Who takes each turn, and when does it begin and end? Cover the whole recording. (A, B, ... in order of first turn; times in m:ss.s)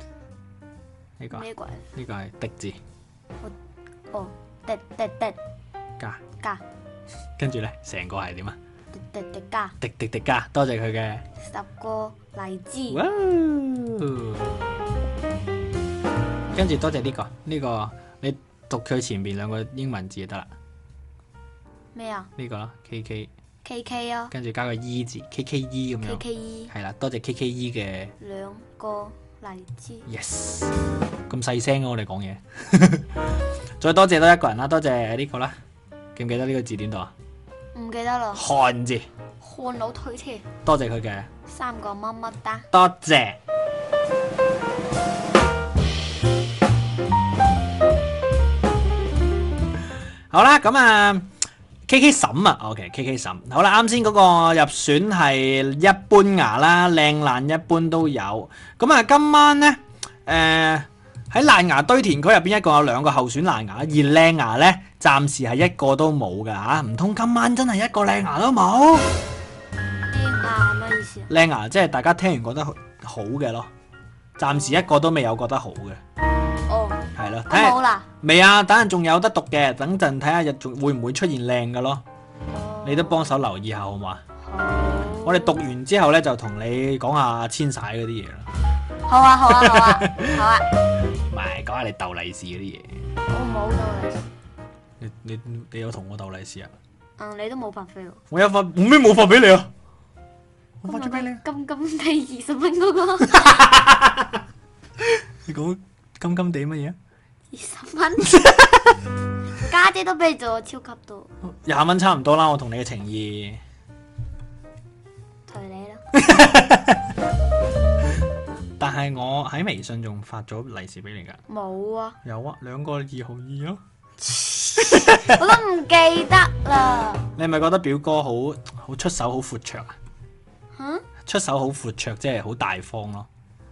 0:01.2-0:02.8 A
0:01.3-0:01.8 B
0:04.1-0:05.4 B
0:07.4-0:08.6 A
0:08.9-0:09.8 B
0:09.8-0:11.2 A
0:11.4-0:13.0 B
0:12.9-0:14.5 A
0:16.5-0:20.5 A
0:21.9-0:22.3 B
0:22.4-0:23.3 A
0:23.6-0:24.3 B
0:24.3-0:28.1 A
0:26.0-0:26.7 B
0:28.2-0:30.0 B
0:30.1-0:30.7 A
0:31.3-0:33.1 A
0:33.8-0:35.5 A
0:36.1-0:37.1 A
0:37.7-0:38.4 B
0:38.3-0:39.0 A
0:39.4-0:40.4 B
0:40.6-0:41.3 A
0:41.5-0:42.6 B
0:42.7-0:43.4 A
0:50.3-0:51.3 A
0:51.9-1:09.1 A
1:10.0-1:11.3 B
1:11.3-1:13.7 A
1:14.4-1:16.0 A
1:16.7-1:18.1 B
1:17.2-1:22.0 A
1:22.5-1:23.2 B
1:22.8-1:24.2 A
1:24.4-1:25.6 B
1:25.2-1:28.5 A
1:29.1-1:30.6 B
1:29.5-1:30.4 A
1:31.3-1:32.9 A
1:33.3-1:34.2 B
1:35.0-1:36.7 A
1:37.2-1:38.2 B
1:38.3-1:39.7 A
1:40.8-1:41.4 A
1:40.8-1:43.6 B
1:43.3-1:44.4 A
1:45.0-1:47.0 A
1:47.5-1:48.4 B
1:48.3-1:48.9 A
1:49.6-1:51.3 B
1:51.6-1:53.6 A
1:55.5-1:56.0 B
1:56.1-1:57.0 A
1:58.8-2:01.4 A
2:01.5-2:02.2 B
2:02.2-2:03.8 A
2:04.2-2:07.3 B
2:04.8-2:05.4 A
2:07.4-2:09.9 A
2:10.7-2:11.0 B
2:11.2-2:13.3 A